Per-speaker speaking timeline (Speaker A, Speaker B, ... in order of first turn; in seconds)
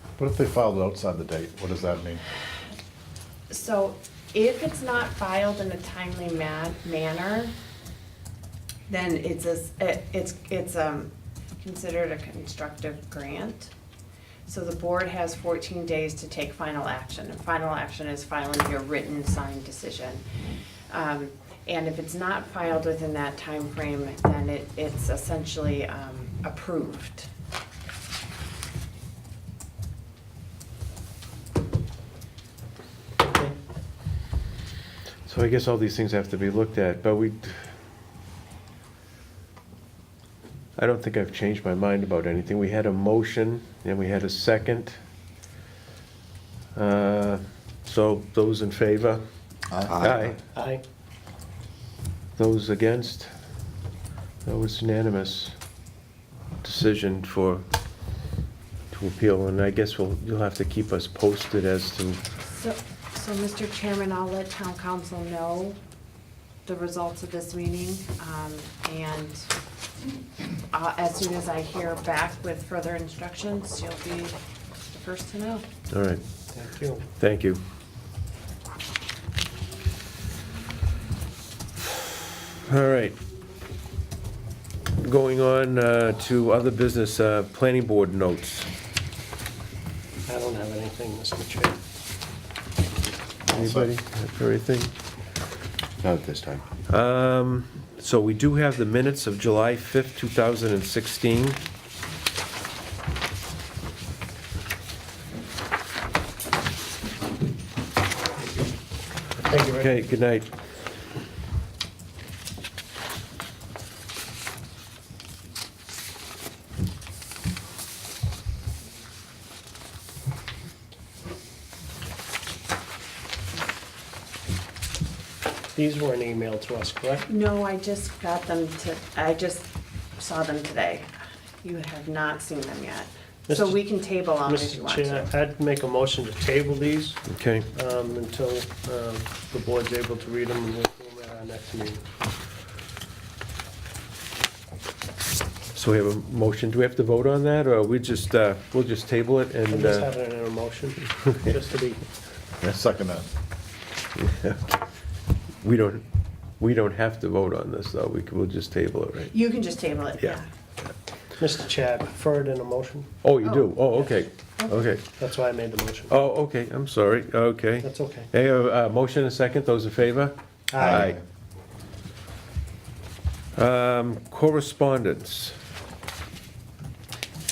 Speaker A: 0.2-2.2, 49.7-50.2, 93.5-93.9, 152.6-153.3, 170.8-171.2
Speaker B: 3.5-7.5, 8.9-13.7, 14.5-20.2, 20.9-27.3, 62.4-65.8, 66.7-69.5, 70.7-74.4, 74.9-75.7, 127.3-135.3, 159.3-160.5, 163.4-164.9
Speaker C: 33.2-33.5, 50.5-50.8, 76.5-77.1, 90.3-91.8, 109.4-109.9, 125.7-127.3, 133.5-142.1, 149.7-152.1, 161.4-163.1, 165.2-166.1, 167.8-168.3, 170.7-171.2
Speaker D: 35.3-37.7, 40.8-45.0, 46.8-49.2, 50.0-50.4, 52.4-53.3, 54.5-55.5, 56.6-57.6, 58.9-62.2, 75.9-76.2, 77.2-77.6, 82.7-83.2, 85.0-88.7, 93.5-94.9, 96.0-101.6, 109.7-110.5, 137.3-137.7, 145.8-150.1, 154.2-154.8, 155.6-156.0, 156.6-159.3, 163.2-165.1, 166.1-171.2, 173.6-175.6